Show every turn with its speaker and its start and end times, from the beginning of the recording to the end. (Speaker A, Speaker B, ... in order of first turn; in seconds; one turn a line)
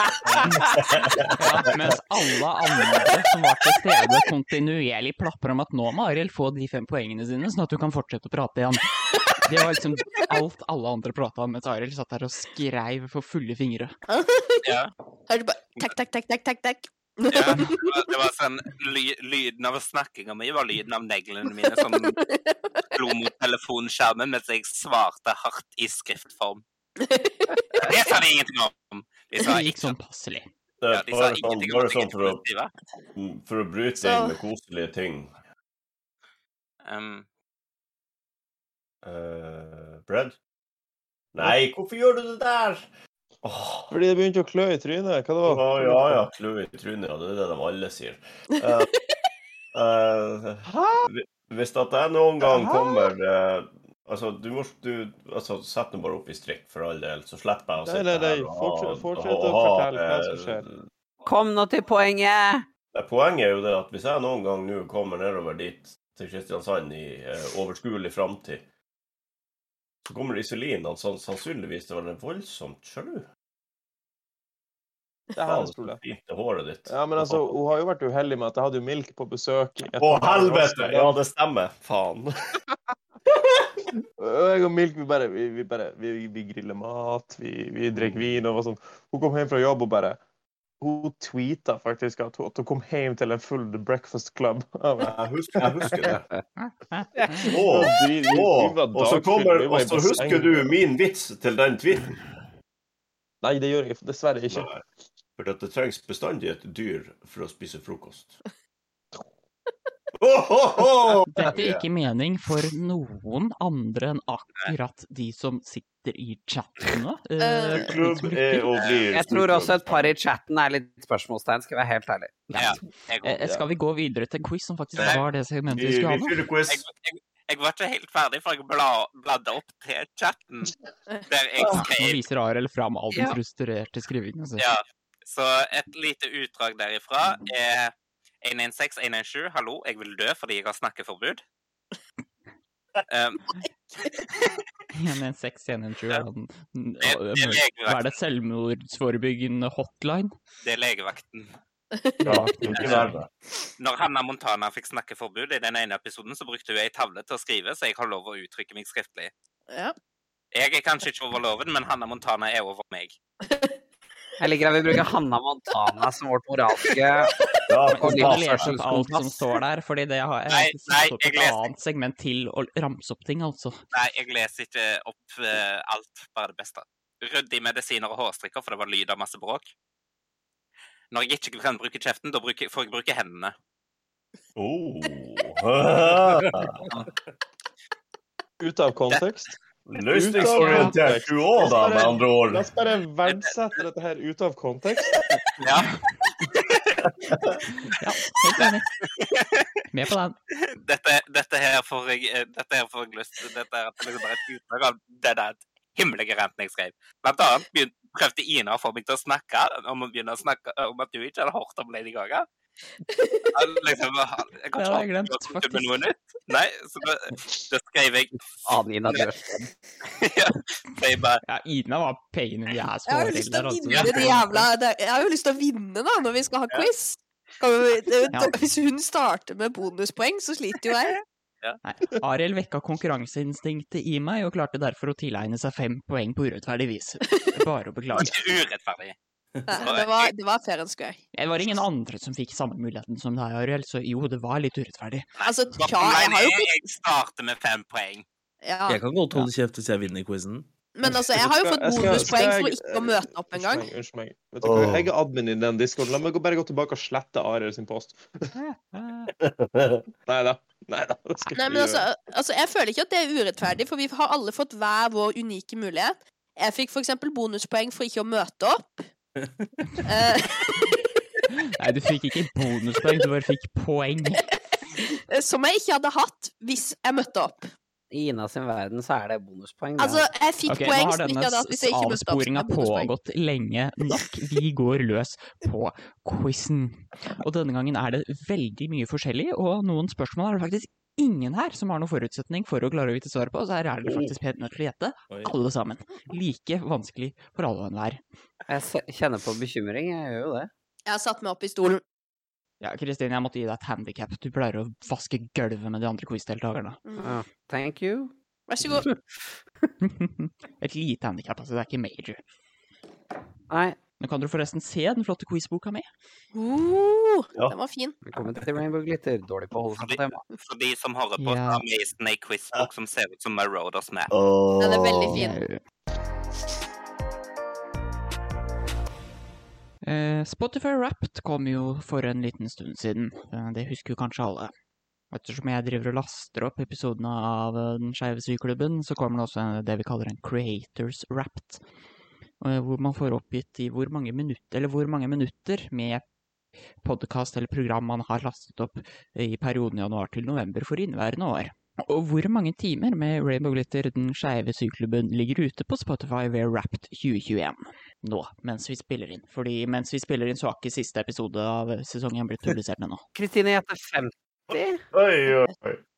Speaker A: 0.2-0.5
Speaker B: 0.9-1.2
Speaker C: 1.4-13.9
Speaker D: 14.1-18.1
Speaker E: 14.6-14.9
Speaker E: 17.3-22.2
Speaker D: 21.9-22.8
Speaker E: 22.9-26.6
Speaker D: 27.0-28.0
Speaker E: 27.8-29.9
Speaker C: 29.4-30.5
Speaker B: 30.8-32.4
Speaker E: 30.9-32.7
Speaker B: 33.1-35.3
Speaker D: 34.0-34.4
Speaker E: 36.8-37.2
Speaker B: 39.0-40.4
Speaker B: 41.3-42.9
Speaker B: 43.4-43.9
Speaker F: 43.9-46.2
Speaker B: 45.4-48.9
Speaker B: 49.7-60.9
Speaker F: 50.6-51.1
Speaker D: 52.6-52.9
Speaker F: 57.8-60.6
Speaker G: 61.2-62.6
Speaker B: 62.9-68.6
Speaker B: 70.1-73.2
Speaker F: 75.3-76.0
Speaker B: 75.4-77.5
Speaker F: 76.9-81.1
Speaker B: 80.0-82.3
Speaker F: 84.2-90.2
Speaker F: 90.8-95.6
Speaker B: 95.0-96.2
Speaker C: 96.6-97.5
Speaker G: 97.2-97.5
Speaker B: 97.5-102.3
Speaker F: 97.5-100.7
Speaker F: 103.4-104.7
Speaker B: 104.5-104.8
Speaker B: 105.4-108.3
Speaker B: 110.2-111.8
Speaker C: 111.3-118.7
Speaker D: 117.4-117.9
Speaker B: 117.7-120.1
Speaker E: 118.7-119.0
Speaker G: 119.1-122.5
Speaker C: 122.5-126.4
Speaker E: 122.6-123.5
Speaker B: 125.7-126.8
Speaker E: 126.7-130.8
Speaker E: 131.3-132.2
Speaker C: 131.7-134.7
Speaker E: 134.6-141.4
Speaker E: 143.1-143.5
Speaker C: 144.9-150.3
Speaker E: 147.0-148.1
Speaker E: 150.6-151.5
Speaker D: 151.9-152.4
Speaker C: 152.2-153.2
Speaker B: 152.2-153.3
Speaker E: 152.7-153.1
Speaker E: 153.8-159.3
Speaker D: 159.7-159.9
Speaker E: 160.5-163.2
Speaker D: 163.4-163.7
Speaker G: 164.4-167.3
Speaker B: 167.7-168.7
Speaker C: 167.9-173.8
Speaker G: 167.9-169.4
Speaker E: 170.5-171.6
Speaker E: 173.9-179.7
Speaker E: 181.1-183.5
Speaker B: 184.6-186.8
Speaker F: 188.6-189.6
Speaker B: 189.9-192.7
Speaker F: 190.1-195.3
Speaker C: 190.6-190.9
Speaker E: 195.6-196.0
Speaker E: 196.5-196.9
Speaker C: 198.0-198.9
Speaker E: 198.5-199.7
Speaker C: 199.9-200.3
Speaker E: 200.6-212.5
Speaker D: 213.1-213.5
Speaker E: 213.5-219.3
Speaker C: 214.8-215.9
Speaker G: 218.7-219.7
Speaker E: 220.0-221.4
Speaker C: 221.4-224.7
Speaker D: 223.1-231.2
Speaker C: 231.8-238.3
Speaker D: 237.2-237.6
Speaker E: 238.1-239.2
Speaker D: 239.7-241.2
Speaker E: 239.7-240.3
Speaker C: 241.3-245.3
Speaker E: 245.4-248.2
Speaker D: 245.4-246.7
Speaker D: 248.6-249.0
Speaker A: 248.9-250.7
Speaker D: 250.9-253.9
Speaker F: 251.2-258.5
Speaker B: 254.6-255.1
Speaker C: 258.5-259.3
Speaker B: 259.4-260.0
Speaker F: 260.2-262.0
Speaker D: 261.5-269.1
Speaker D: 270.0-271.0
Speaker C: 271.8-274.5
Speaker D: 274.5-277.7
Speaker G: 278.1-280.3
Speaker D: 280.0-283.1
Speaker C: 280.7-298.2
Speaker B: 294.0-294.3
Speaker A: 295.3-295.6
Speaker G: 298.7-300.7
Speaker D: 301.1-302.0
Speaker C: 302.8-307.0
Speaker D: 307.0-307.4
Speaker G: 307.2-308.3
Speaker D: 308.7-309.1
Speaker C: 310.0-312.4
Speaker G: 313.7-314.0
Speaker C: 314.2-316.1
Speaker D: 316.5-318.1
Speaker G: 318.2-320.4
Speaker E: 319.9-324.3
Speaker C: 321.4-321.8
Speaker B: 324.3-325.4
Speaker D: 324.8-325.6
Speaker C: 325.3-325.8
Speaker C: 330.0-334.7
Speaker C: 335.3-341.8
Speaker C: 342.6-346.2
Speaker C: 347.0-363.2
Speaker G: 363.3-365.0
Speaker B: 365.1-366.0